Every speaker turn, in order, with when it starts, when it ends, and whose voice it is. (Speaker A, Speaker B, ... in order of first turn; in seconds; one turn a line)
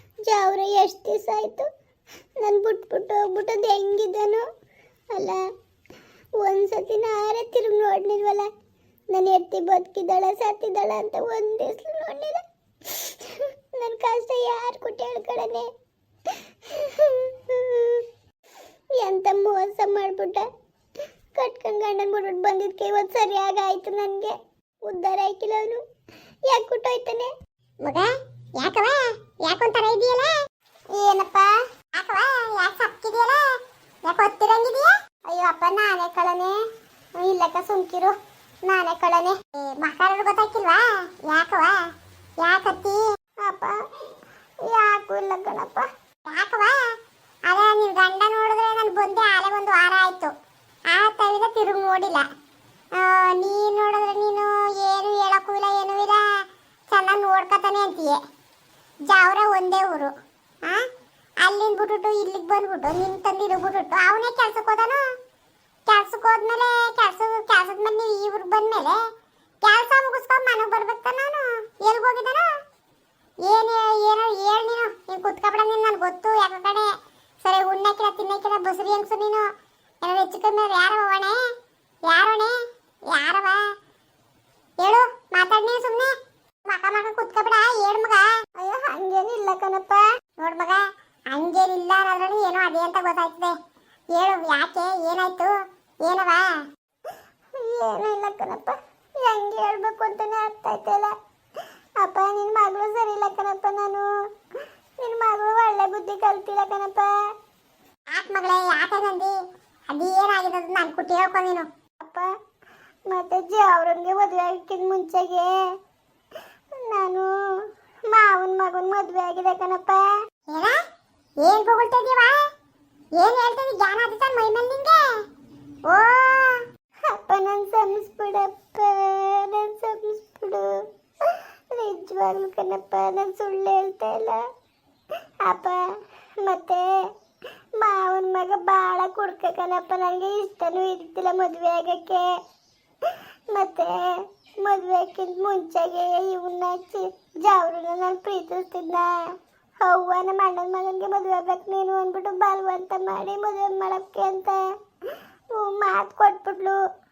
Speaker A: 0.2-1.7
Speaker A: 2.4-4.4
Speaker A: 5.1-5.4
Speaker A: 6.4-8.5
Speaker A: 9.1-15.7
Speaker A: 16.6-18.1
Speaker A: 19.0-20.5
Speaker A: 21.3-25.8
Speaker A: 26.5-27.3
Speaker B: 27.8-30.3
Speaker B: 30.9-43.0
Speaker A: 43.4-43.8
Speaker A: 44.6-45.9
Speaker B: 46.2-50.3
Speaker B: 50.9-52.3
Speaker B: 52.9-58.2
Speaker B: 59.1-60.1
Speaker B: 61.4-65.0
Speaker B: 65.9-69.0
Speaker B: 69.6-72.5
Speaker B: 73.5-79.5
Speaker B: 80.0-81.4
Speaker B: 82.0-83.8
Speaker B: 84.8-86.1
Speaker B: 86.7-88.5
Speaker A: 88.5-90.1
Speaker B: 90.4-93.6
Speaker B: 94.1-96.6
Speaker A: 97.5-101.2
Speaker A: 102.0-104.1
Speaker A: 105.0-107.1
Speaker B: 108.1-109.3
Speaker B: 109.9-111.7
Speaker A: 112.0-112.3
Speaker A: 113.1-115.6
Speaker A: 116.7-117.3
Speaker A: 118.1-120.0
Speaker B: 120.5-120.8
Speaker B: 121.4-122.5
Speaker B: 123.2-125.1
Speaker B: 125.9-126.6
Speaker A: 127.1-134.4
Speaker A: 135.4-135.8
Speaker A: 136.4-137.0
Speaker A: 137.8-142.3
Speaker A: 143.5-149.2
Speaker A: 149.8-154.6
Speaker A: 155.5-156.8